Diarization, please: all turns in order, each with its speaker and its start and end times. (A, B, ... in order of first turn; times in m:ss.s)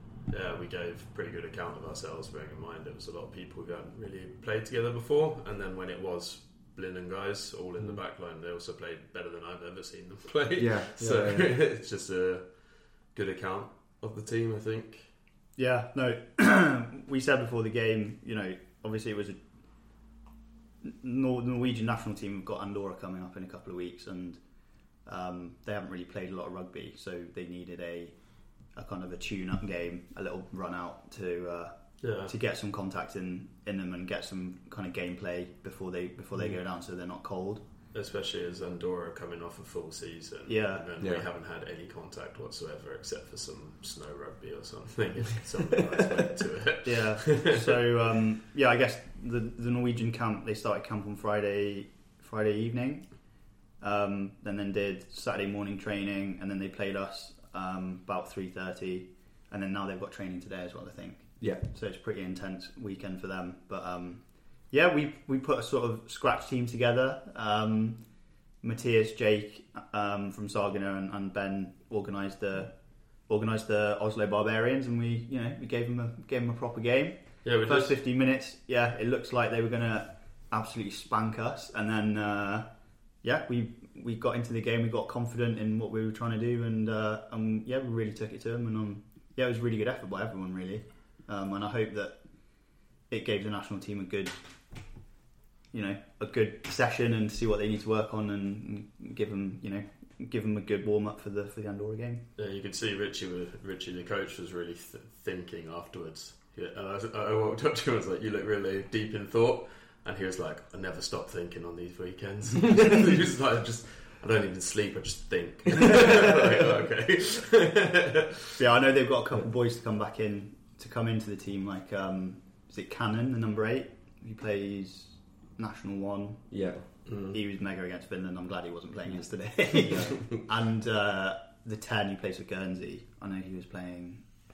0:00.3-0:12.4 A
0:10.6-0:11.5 B
0:13.1-0:15.1 A
0:15.6-0:19.4 C
0:20.8-0:24.4 C
0:25.1-0:28.2 C
0:28.8-0:31.7 C
0:32.0-0:32.3 A
0:32.2-0:37.6 C
0:37.9-0:47.7 A
0:40.5-0:40.8 C
0:41.0-0:41.3 B
0:46.8-0:53.1 C
0:53.8-1:08.0 C
1:08.6-1:12.7 C
1:13.3-1:22.7 C
1:17.4-1:17.9 A
1:23.2-1:32.2 C
1:33.1-1:34.4 C
1:35.7-1:42.2 C
1:42.4-1:58.4 A
1:55.9-1:56.2 B
1:58.6-2:06.5 C
2:06.5-2:06.8 B
2:07.1-2:07.4 A
2:07.3-2:14.2 C
2:09.9-2:10.2 B